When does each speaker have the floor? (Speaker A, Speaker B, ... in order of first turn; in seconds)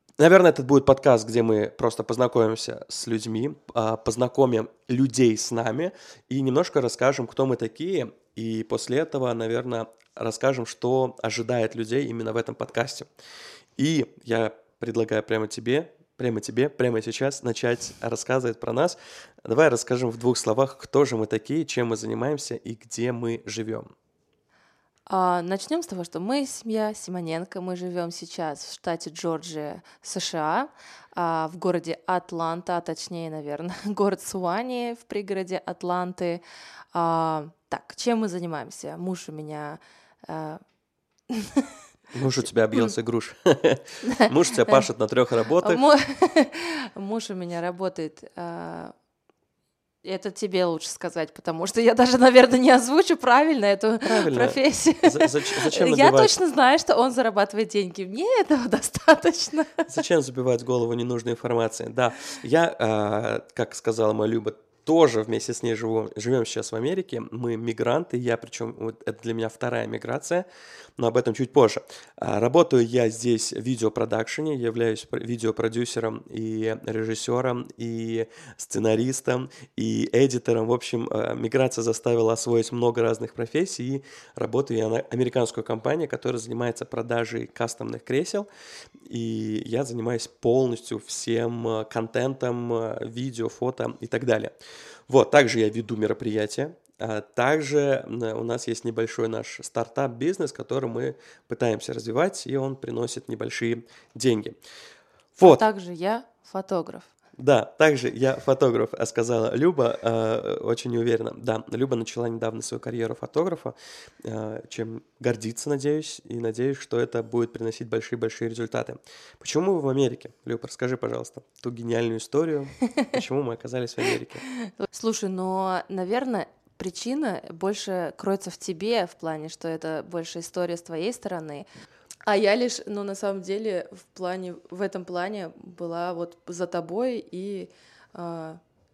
Speaker A: 0.2-13.1, 13.8-23.9, 42.1-45.8, 54.0-56.3, 59.9-70.5, 71.0-88.5, 89.1-94.5, 95.1-104.6, 105.4-105.7, 107.4-124.4
Speaker B: 25.1-36.4, 36.9-40.6, 41.3-41.7, 44.0-44.8, 45.6-48.9, 50.0-59.9, 105.4-107.1, 124.8-131.7, 132.3-138.6